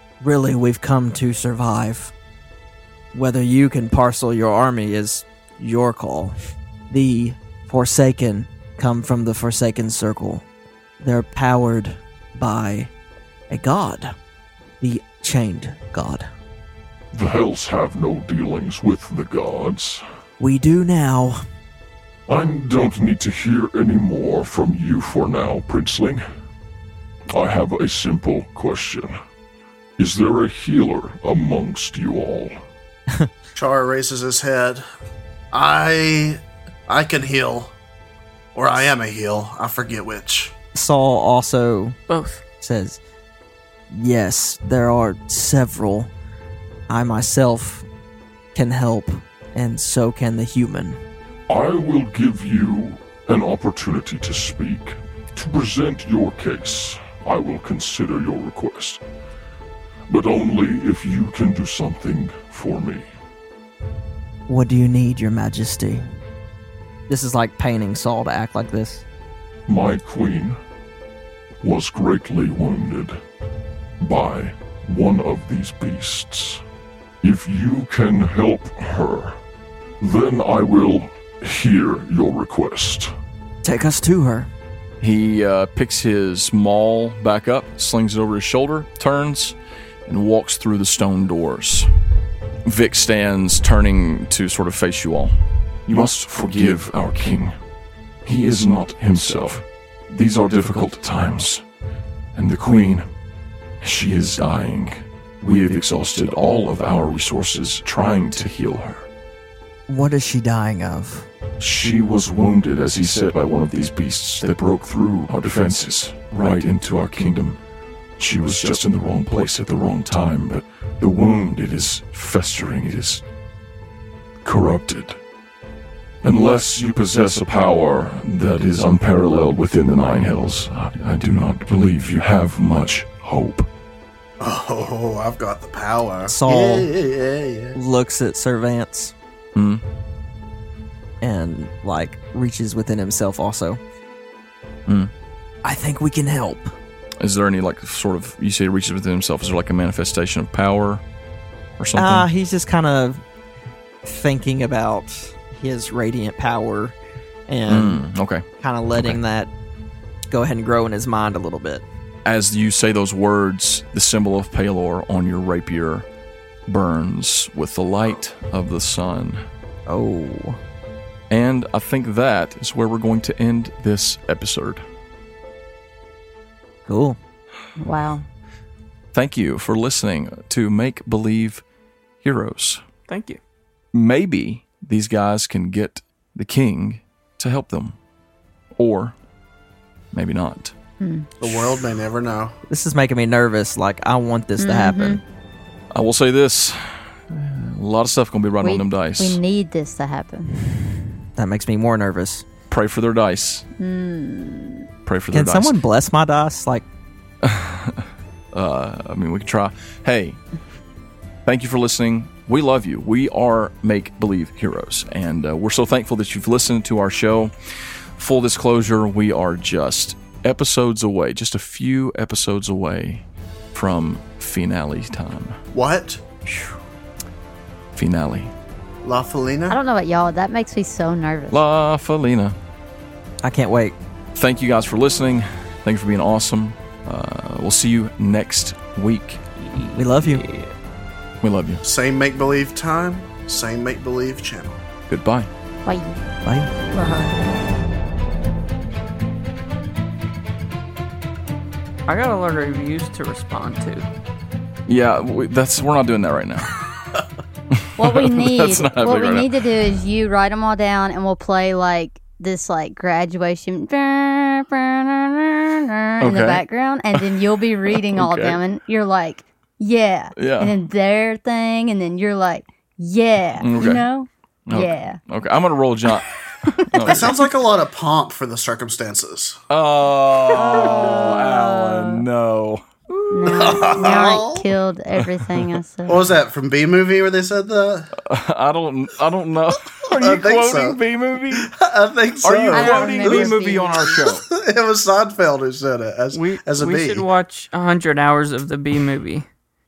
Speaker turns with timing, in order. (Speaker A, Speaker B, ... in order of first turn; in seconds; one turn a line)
Speaker A: 0.2-2.1
Speaker A: 3.1-6.3
Speaker A: 6.9-10.4
Speaker A: 11.0-12.9
Speaker A: 13.5-14.2
Speaker A: 14.8-16.3
Speaker B: 17.1-20.0
Speaker A: 20.4-21.4
Speaker B: 22.3-26.2
Speaker B: 27.3-29.1
Speaker B: 30.0-32.6
Speaker C: 33.5-34.9
Speaker C: 35.5-37.7
Speaker C: 38.5-40.5
Speaker A: 40.7-42.0
Speaker D: 42.1-42.4
Speaker A: 42.6-43.0
Speaker A: 43.9-46.1
Speaker A: 46.9-47.9
Speaker A: 48.5-51.0
Speaker B: 51.5-59.0
Speaker B: 60.1-63.1
Speaker A: 64.5-66.0
Speaker A: 67.1-69.1
Speaker B: 69.7-70.6
Speaker B: 71.6-73.2
Speaker B: 74.0-76.6
Speaker B: 77.2-79.4
Speaker B: 80.0-83.1
Speaker A: 83.6-84.5
Speaker E: 85.0-89.6
Speaker E: 90.1-91.9
Speaker E: 92.7-95.3
Speaker B: 95.9-97.6
Speaker B: 98.2-101.6
Speaker B: 102.3-103.1
Speaker B: 103.8-109.1
Speaker A: 109.9-111.3
Speaker B: 111.6-117.6
Speaker B: 118.2-123.2
Speaker B: 124.4-125.2
Speaker B: 126.2-133.7
Speaker C: 134.4-137.8
Speaker A: 136.3-136.9
Speaker A: 137.8-139.1
Speaker E: 139.6-139.8
Speaker A: 141.2-143.8
Speaker E: 144.9-145.1
Speaker A: 145.6-146.8
Speaker E: 147.2-151.0
Speaker E: 151.8-152.3
Speaker A: 152.0-153.2
Speaker A: 154.0-157.0
Speaker A: 157.5-158.1
Speaker E: 157.7-158.4
Speaker A: 158.6-159.5
Speaker A: 160.3-161.9
Speaker E: 162.2-166.1
Speaker E: 166.7-169.4
Speaker A: 169.9-170.6
Speaker E: 171.3-174.8
Speaker A: 176.9-177.2
Speaker F: 177.8-178.3
Speaker E: 179.1-181.6
Speaker E: 182.2-182.8
Speaker D: 183.1-183.4
Speaker E: 183.9-188.0
Speaker E: 188.8-189.2
Speaker E: 190.1-190.7
Speaker F: 191.0-191.3
Speaker C: 191.4-192.6
Speaker A: 192.7-195.2
Speaker F: 194.6-195.2
Speaker E: 195.9-199.4
Speaker F: 198.6-200.7
Speaker A: 201.3-202.5
Speaker E: 202.7-203.7
Speaker F: 203.8-204.9
Speaker E: 205.1-205.8
Speaker A: 205.3-206.9
Speaker E: 207.4-210.4
Speaker E: 211.5-217.5
Speaker E: 218.2-225.6
Speaker C: 225.7-226.2
Speaker E: 227.9-228.5
Speaker C: 229.0-229.8
Speaker F: 229.7-231.6
Speaker E: 231.5-232.6
Speaker A: 233.4-234.0
Speaker E: 234.3-239.4
Speaker D: 239.6-240.7
Speaker A: 239.9-240.4
Speaker E: 241.4-241.8
Speaker C: 241.8-244.8
Speaker E: 245.1-245.5
Speaker F: 245.9-246.2
Speaker A: 246.4-246.7
Speaker F: 246.9-247.3
Speaker D: 252.1-254.1
Speaker E: 254.9-256.8
Speaker E: 257.7-259.5
Speaker F: 258.0-275.2
Speaker E: 266.2-266.6
Speaker E: 267.1-268.6
Speaker E: 270.4-270.8
Speaker E: 273.6-274.1
Speaker E: 274.7-277.4
Speaker F: 276.6-277.3
Speaker C: 277.0-279.6
Speaker E: 279.7-284.0
Speaker F: 280.5-282.3
Speaker F: 283.3-286.2
Speaker C: 283.5-284.7
Speaker E: 285.5-285.8
Speaker C: 286.1-288.1
Speaker E: 288.2-291.7
Speaker C: 289.9-297.2
Speaker E: 292.4-294.4
Speaker F: 292.7-294.3
Speaker D: 296.3-299.5